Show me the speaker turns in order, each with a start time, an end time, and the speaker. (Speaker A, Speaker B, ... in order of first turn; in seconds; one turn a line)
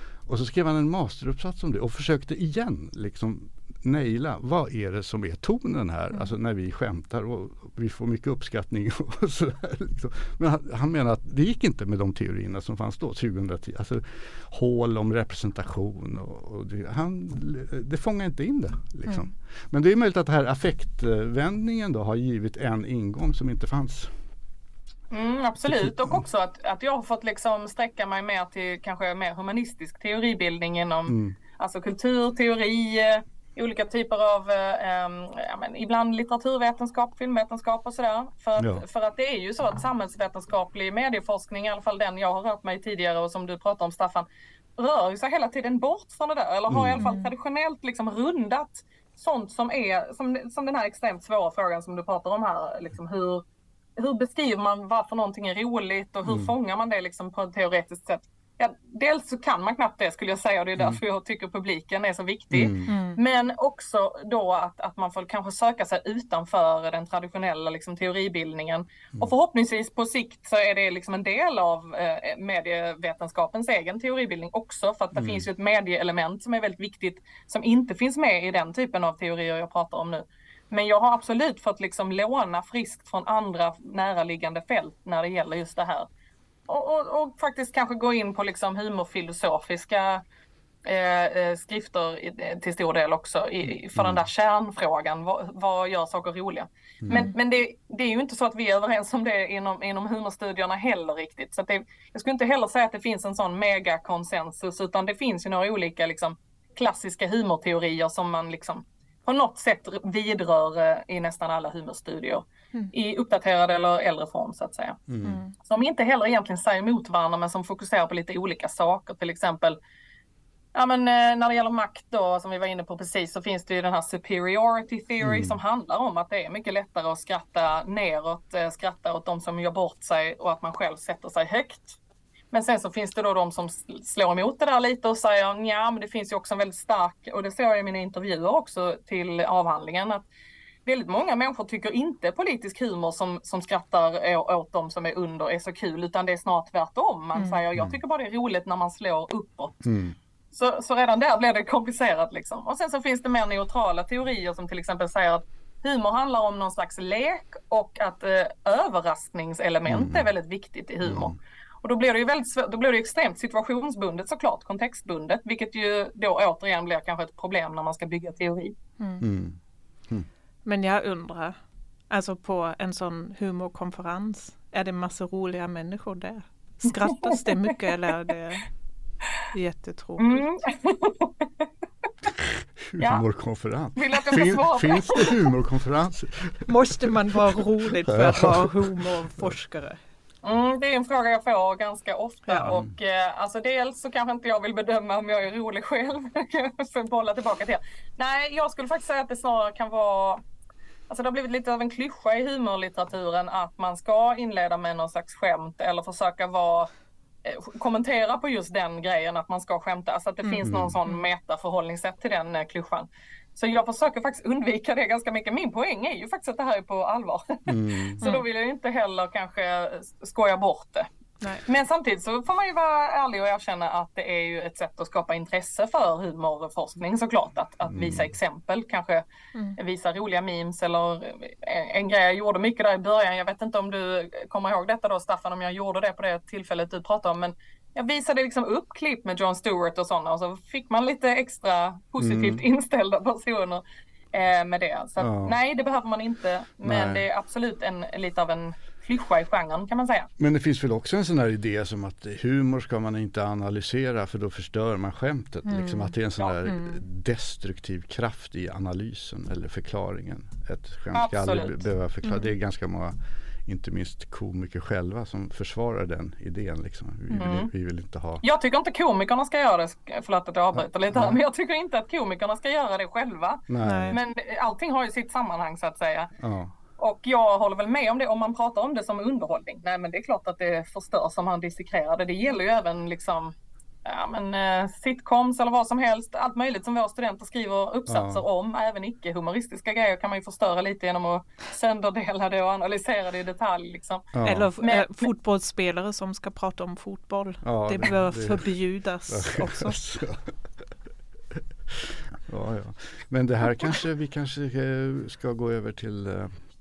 Speaker A: 0.2-24.1
Speaker B: 25.1-44.3
Speaker A: 25.7-26.2
Speaker A: 31.1-31.4
Speaker A: 38.6-38.8
Speaker B: 44.8-53.4
Speaker A: 46.7-47.0
Speaker C: 47.0-47.3
Speaker B: 54.0-86.1
Speaker A: 56.3-56.5
Speaker A: 62.5-62.9
Speaker C: 62.9-63.2
Speaker A: 75.2-75.5
Speaker B: 86.7-90.2
Speaker B: 90.8-115.0
Speaker A: 94.0-94.2
Speaker A: 97.0-97.3
Speaker A: 115.1-115.4
Speaker C: 115.2-115.5
Speaker B: 115.6-119.8
Speaker B: 120.8-132.0
Speaker A: 125.2-125.6
Speaker B: 132.5-140.2
Speaker B: 140.9-149.8
Speaker C: 147.3-147.6
Speaker A: 149.8-150.2
Speaker B: 150.5-168.8
Speaker A: 159.9-160.3
Speaker A: 161.0-161.4
Speaker C: 169.0-169.2
Speaker A: 169.2-170.3
Speaker C: 170.7-171.6
Speaker C: 172.1-178.7
Speaker C: 179.5-180.4
Speaker B: 180.2-181.7
Speaker A: 182.4-189.5
Speaker B: 183.0-183.2
Speaker B: 184.0-185.5
Speaker C: 186.7-190.0
Speaker B: 190.4-200.4
Speaker A: 192.6-192.9
Speaker B: 201.1-206.9
Speaker B: 207.4-221.1
Speaker C: 210.4-211.2
Speaker A: 210.6-211.0
Speaker A: 217.7-218.2
Speaker B: 221.7-229.2
Speaker A: 227.9-228.3
Speaker B: 229.8-250.3
Speaker A: 242.2-242.6
Speaker A: 245.2-245.6
Speaker A: 246.8-247.2
Speaker A: 250.4-268.4
Speaker C: 255.7-256.1
Speaker C: 256.7-256.9
Speaker B: 261.1-261.8
Speaker C: 262.2-262.5
Speaker B: 267.3-267.7
Speaker B: 268.4-276.3
Speaker A: 270.8-271.4
Speaker A: 273.7-274.2
Speaker C: 273.8-274.2
Speaker A: 276.4-276.8
Speaker B: 277.0-283.5
Speaker B: 284.1-295.3
Speaker A: 288.1-288.4
Speaker A: 294.3-294.7
Speaker C: 294.4-300.0
Speaker A: 297.6-298.7
Speaker A: 299.3-300.5
Speaker A: 301.6-306.5